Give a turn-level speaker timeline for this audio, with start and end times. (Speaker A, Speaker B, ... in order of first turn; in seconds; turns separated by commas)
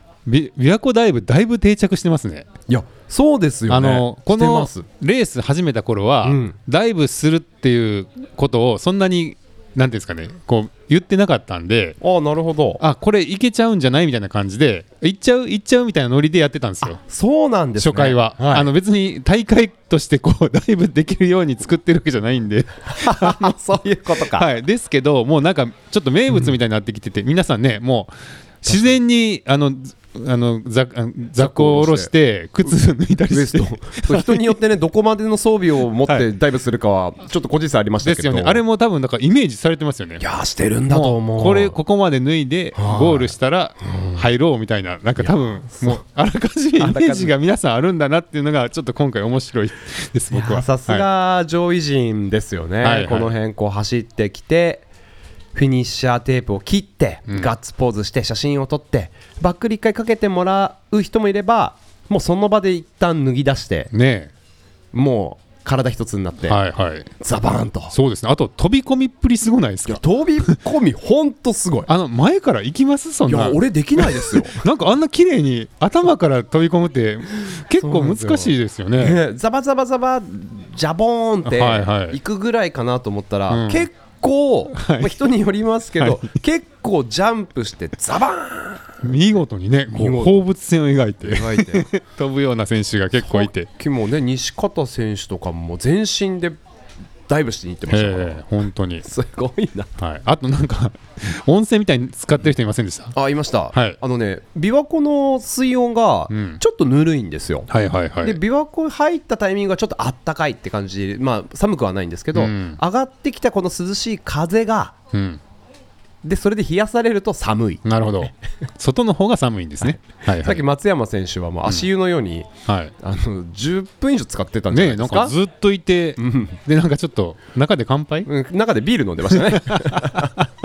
Speaker A: 0.2-2.5, Speaker B: 2.7-4.9, Speaker A: 3.7-12.0, Speaker B: 6.2-6.6, Speaker B: 12.0-12.8, Speaker A: 12.8-17.0, Speaker B: 17.0-18.7, Speaker A: 17.8-23.5, Speaker B: 23.0-24.5, Speaker A: 24.2-34.5, Speaker B: 28.7-28.9, Speaker B: 31.4-32.1, Speaker B: 33.3-38.6, Speaker A: 38.0-40.2, Speaker B: 40.2-41.8, Speaker A: 40.9-51.1, Speaker B: 42.8-44.2, Speaker B: 45.2-46.0, Speaker B: 46.8-47.3, Speaker B: 50.3-54.8, Speaker A: 52.8-53.3, Speaker B: 55.5-63.9, Speaker A: 63.9-64.3, Speaker B: 64.9-66.6, Speaker A: 66.5-67.1, Speaker B: 67.2-67.9, Speaker A: 67.9-70.0, Speaker B: 69.8-71.9, Speaker A: 71.9-79.2, Speaker B: 73.3-74.6, Speaker B: 77.8-89.0, Speaker A: 81.4-82.2, Speaker A: 83.5-83.9, Speaker A: 84.7-85.2, Speaker A: 86.0-86.2, Speaker A: 89.0-93.7, Speaker B: 89.9-90.4, Speaker B: 91.2-91.8, Speaker B: 93.2-96.6, Speaker B: 97.3-99.9, Speaker A: 97.9-99.1, Speaker A: 100.0-103.1, Speaker B: 103.1-107.7, Speaker A: 103.7-104.0, Speaker A: 106.3-106.6, Speaker A: 107.7-108.4, Speaker B: 108.2-115.0, Speaker A: 112.3-112.8, Speaker A: 115.1-115.4, Speaker B: 116.2-118.3, Speaker A: 117.8-120.6, Speaker B: 119.8-125.3, Speaker A: 122.7-122.9, Speaker A: 124.7-128.3, Speaker B: 126.2-126.6, Speaker B: 128.2-130.3